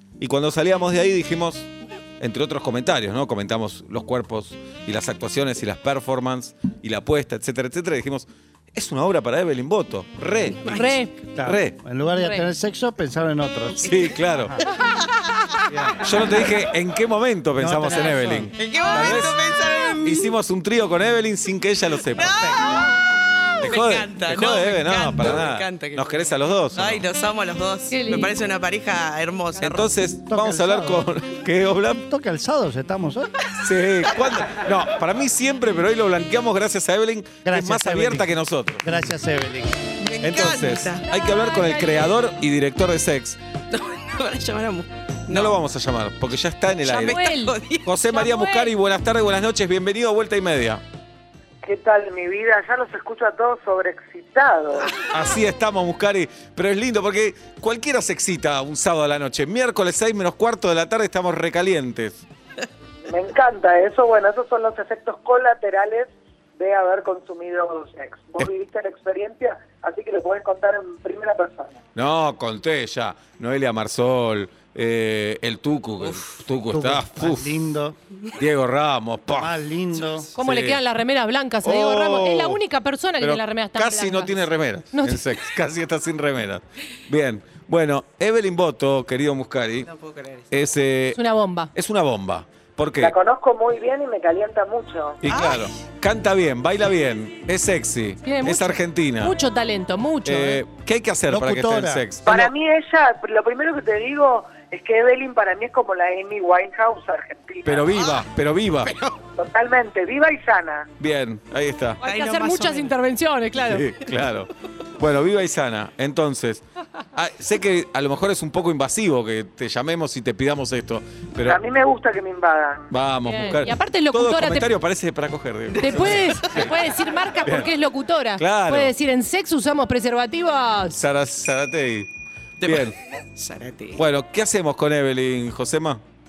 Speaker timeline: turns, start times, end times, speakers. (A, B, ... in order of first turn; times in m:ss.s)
0:00.2-0:10.8 A
0:10.6-0:11.1 B
0:10.7-0:11.2 C
0:11.4-0:13.9 D
0:11.4-0:11.8 A
0:12.2-0:12.5 C
0:13.8-0:14.5 A
0:13.9-0:14.2 B
0:15.7-0:16.4 D
0:16.0-0:19.4 A
0:17.6-0:18.5 D
0:18.6-0:20.3 B
0:20.0-0:22.4 A
0:22.1-0:29.9 B
0:22.2-0:22.8 D
0:23.6-0:27.0 A
0:27.9-0:28.4 C
0:29.6-0:32.0 A
0:30.3-0:31.0 D
0:32.0-0:33.4 D
0:33.6-0:38.9 A
0:37.4-0:38.3 D
0:38.8-0:39.8 D
0:40.0-0:41.1 B
0:40.2-0:43.4 A
0:41.0-0:42.2 C
0:43.7-0:45.6 B
0:45.3-0:47.2 A
0:46.8-0:48.7 C
0:47.0-0:48.0 B
0:47.8-0:50.8 A
0:51.6-0:54.9 E
0:55.1-1:02.2 A
1:03.1-1:11.8 E
1:12.0-1:17.6 A
1:16.0-1:16.3 B
1:16.7-1:18.0 D
1:18.4-1:19.5 A
1:19.4-1:20.3 D
1:20.0-1:20.3 B
1:20.4-1:25.3 C
1:20.4-1:20.8 A
1:21.6-1:22.6 A
1:23.2-1:29.9 A
1:29.9-1:30.5 B
1:30.5-1:31.2 A
1:31.2-1:31.7 C
1:31.7-1:33.2 A
1:33.0-1:35.2 E
1:35.2-1:39.4 A
1:35.3-1:35.7 B
1:38.2-1:40.6 C
1:40.2-1:42.5 A
1:41.3-1:42.1 D
1:42.2-1:47.8 E
1:47.6-1:48.9 A
1:47.9-1:48.3 B
1:48.8-1:49.2 B
1:49.4-1:50.9 E
1:51.0-1:52.0 A
1:52.0-1:53.9 C
1:52.0-1:53.0 B
1:53.6-1:56.6 A
1:57.2-2:01.6 A
2:01.4-2:02.9 E
2:02.9-2:06.7 A
2:03.2-2:04.7 C
2:05.7-2:06.7 B
2:05.8-2:11.0 C
2:07.4-2:07.7 A
2:08.4-2:08.9 A
2:10.9-2:12.1 A
2:12.6-2:14.0 B
2:12.6-2:12.9 A
2:14.0-2:16.0 A